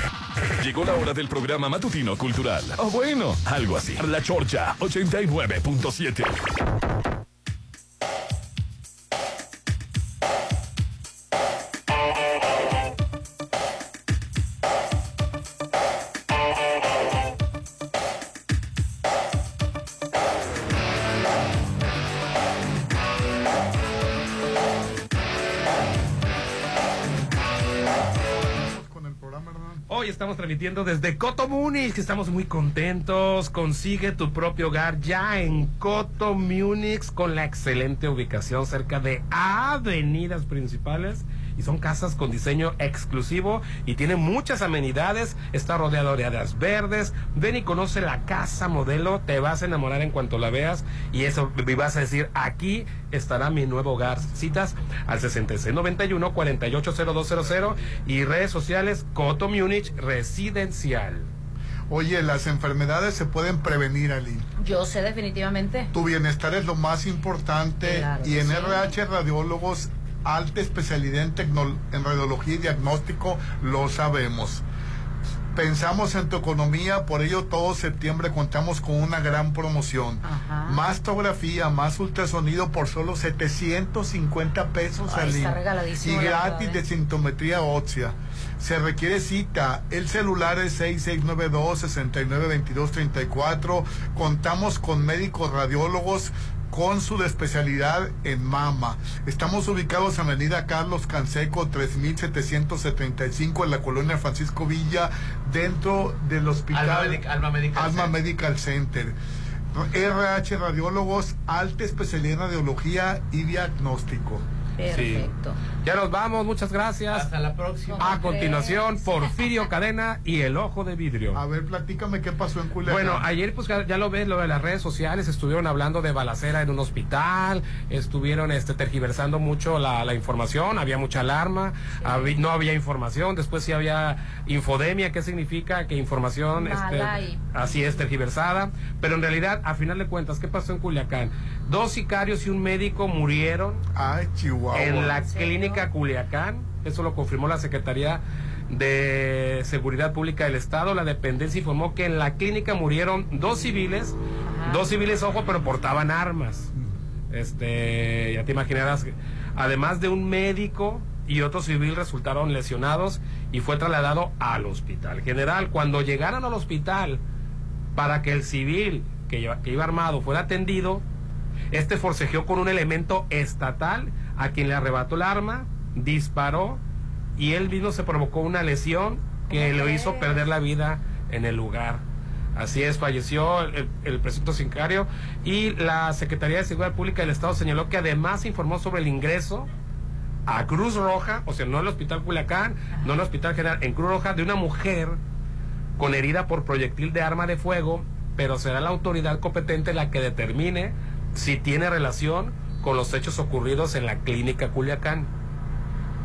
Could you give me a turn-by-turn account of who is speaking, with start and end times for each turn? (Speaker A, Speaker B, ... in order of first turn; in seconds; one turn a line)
Speaker A: 0.6-6.4
Speaker B: 28.5-29.8
Speaker C: 29.9-61.3
Speaker B: 61.9-64.5
Speaker D: 64.6-65.9
Speaker B: 65.9-74.6
Speaker D: 67.8-68.9
Speaker B: 75.5-107.2
Speaker D: 80.2-80.8
Speaker D: 85.0-86.8
Speaker E: 106.7-108.1
Speaker B: 107.7-109.1
Speaker B: 109.7-114.4
Speaker D: 114.8-115.5
Speaker C: 114.9-115.3
Speaker C: 115.8-117.3
Speaker E: 117.1-118.5
Speaker D: 117.9-119.4
Speaker C: 118.0-121.4
Speaker B: 121.3-123.2
Speaker C: 122.8-143.8
Speaker D: 132.0-132.3
Speaker D: 136.6-137.4
Speaker B: 143.9-145.2
Speaker C: 144.7-156.7
Speaker D: 145.2-145.8
Speaker D: 154.4-154.9
Speaker C: 157.3-167.2
Speaker C: 167.9-171.0
Speaker C: 171.7-176.8
Speaker C: 177.4-182.0
Speaker D: 179.5-180.5
Speaker C: 182.6-189.7
Speaker C: 190.5-195.2
Speaker C: 196.0-205.3